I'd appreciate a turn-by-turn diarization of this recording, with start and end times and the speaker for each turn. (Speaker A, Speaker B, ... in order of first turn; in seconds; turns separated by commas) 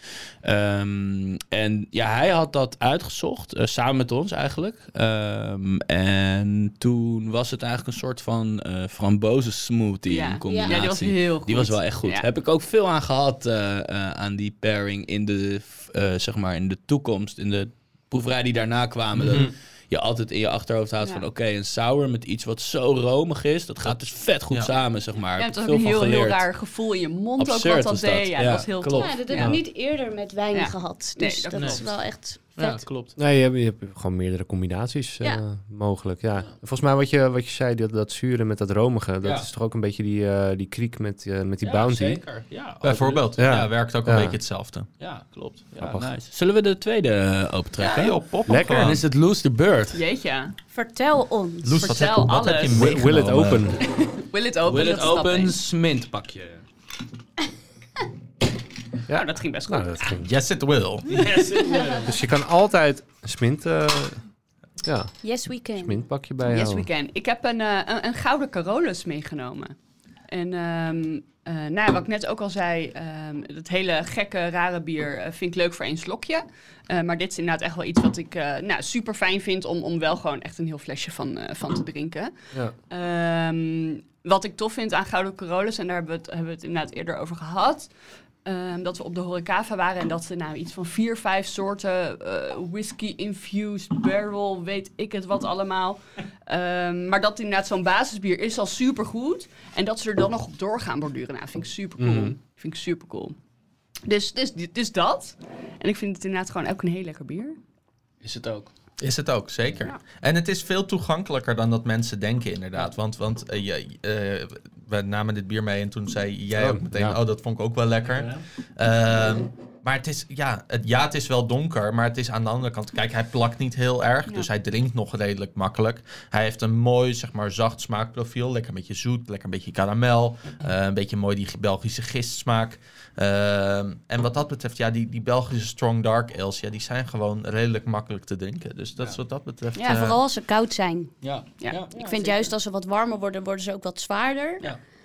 Speaker A: 0.4-26.5, Speaker B: 10.1-12.3, Speaker C: 10.5-10.8, Speaker D: 19.1-19.5, Speaker B: 25.4-29.6, Speaker A: 27.4-29.5, Speaker C: 28.9-32.8, Speaker B: 30.5-31.9, Speaker A: 31.6-31.8, Speaker A: 32.4-33.2, Speaker E: 33.2-42.2, Speaker A: 39.2-39.5, Speaker A: 41.6-43.3, Speaker D: 42.8-44.9, Speaker E: 43.4-44.4, Speaker A: 45.0-48.1, Speaker E: 45.8-46.1, Speaker B: 47.8-48.1, Speaker D: 47.8-49.0, Speaker E: 48.5-49.0, Speaker A: 48.7-50.0, Speaker B: 49.9-50.5, Speaker C: 50.7-51.9, Speaker D: 51.6-53.7, Speaker B: 51.8-53.0, Speaker E: 52.7-53.8, Speaker B: 53.8-55.6, Speaker A: 54.6-56.6, Speaker E: 59.1-60.2, Speaker B: 59.1-60.2, Speaker D: 60.2-61.3, Speaker A: 61.1-62.1, Speaker B: 61.7-62.0, Speaker E: 62.0-64.2, Speaker E: 64.8-65.1, Speaker C: 65.2-66.0, Speaker E: 65.8-66.9, Speaker B: 66.5-69.7, Speaker B: 70.3-82.3, Speaker B: 82.9-87.9, Speaker B: 88.4-103.3, Speaker E: 102.0-102.3, Speaker B: 104.0-107.6, Speaker A: 108.2-108.7, Speaker D: 109.0-140.2, Speaker E: 116.5-117.2, Speaker A: 118.0-118.4, Speaker B: 139.8-140.0, Speaker C: 139.8-141.1, Speaker A: 141.2-142.1, Speaker B: 141.6-142.4, Speaker C: 141.9-144.7